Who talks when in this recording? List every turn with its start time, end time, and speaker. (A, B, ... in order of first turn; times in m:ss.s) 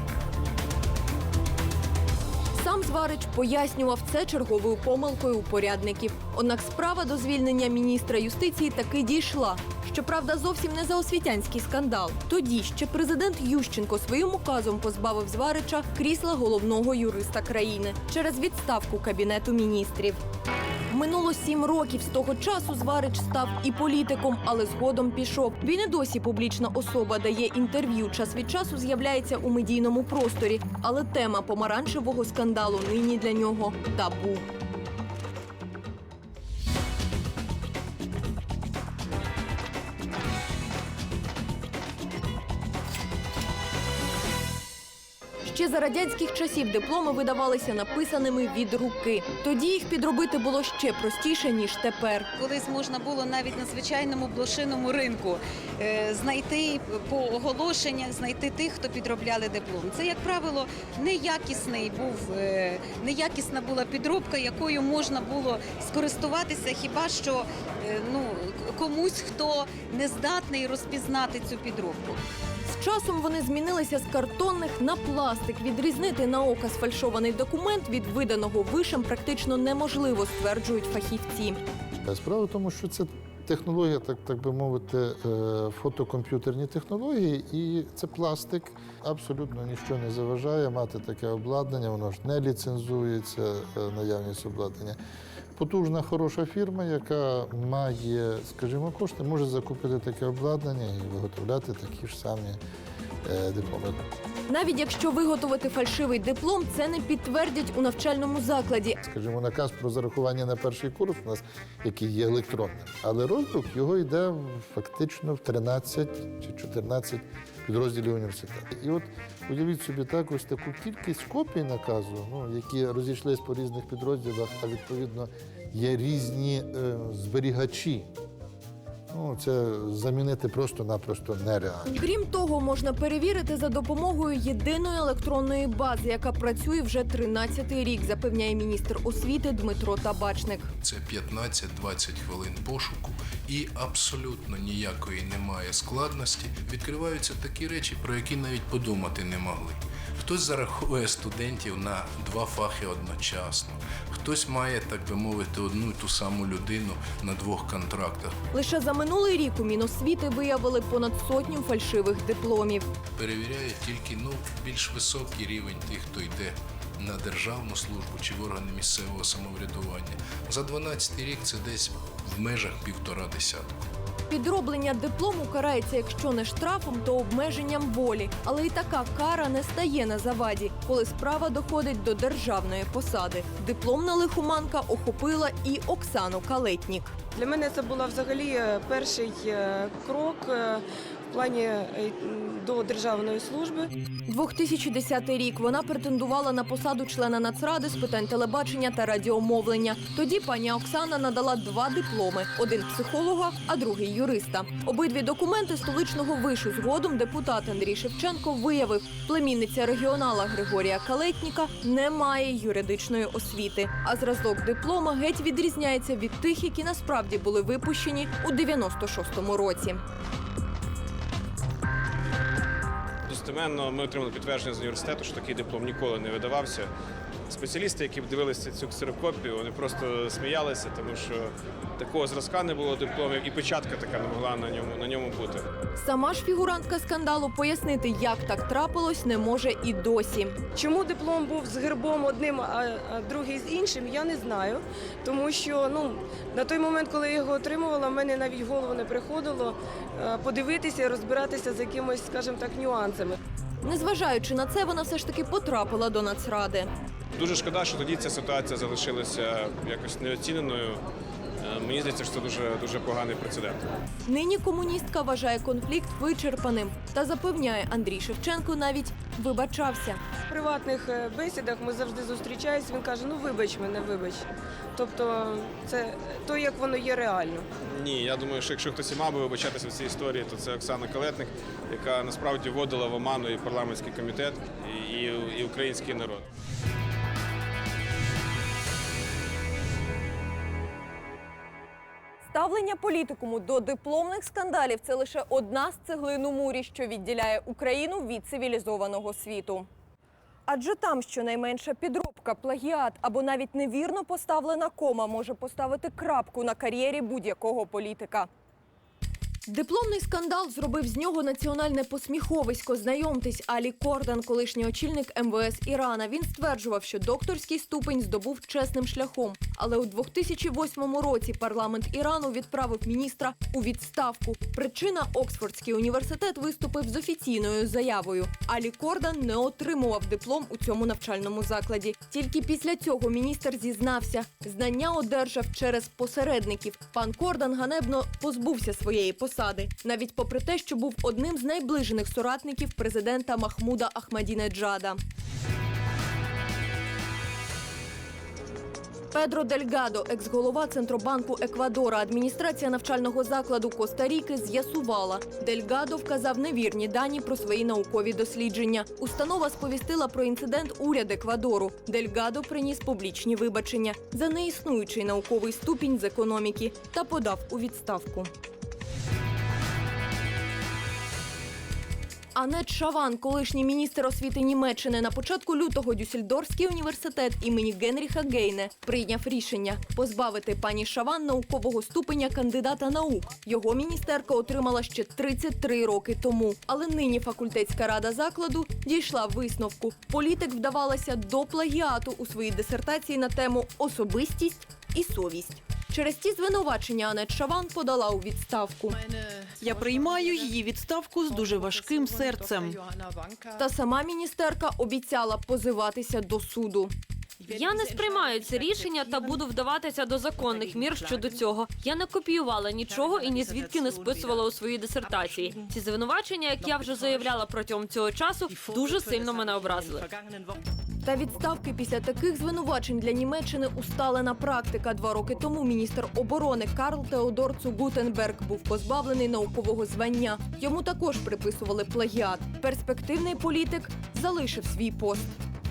0:02.5-0:20.2 A
0:20.9-0:34.5 A
0:45.4-0:52.3 A
0:52.4-1:12.2 B
1:12.7-1:21.6 A
1:22.0-1:35.0 C
1:35.6-1:42.6 C
1:43.2-1:44.1 C
1:44.5-1:49.0 A
1:49.0-2:08.1 C
2:09.1-2:11.9 C
2:11.9-2:20.7 A
2:20.8-2:38.4 D
2:38.5-2:42.8 A
2:43.2-2:53.7 D
2:54.3-3:07.1 A
3:07.3-3:13.9 E
3:14.3-3:40.0 A
3:43.2-3:46.9 F
3:47.5-3:55.7 F
3:56.0-4:00.6 A
4:00.7-4:13.4 E
4:13.8-4:16.9 A
4:17.4-4:21.0 F
4:21.6-4:23.8 F
4:24.2-4:30.2 A
4:30.5-4:37.7 E
4:37.8-4:46.4 F
4:52.5-4:59.9 A
5:00.7-5:08.5 A
5:09.7-5:45.2 A
5:49.3-6:08.5 A
6:12.6-6:39.2 A
6:39.8-6:43.0 G
6:43.8-6:47.1 A
6:47.7-7:00.2 H
7:01.2-7:15.5 A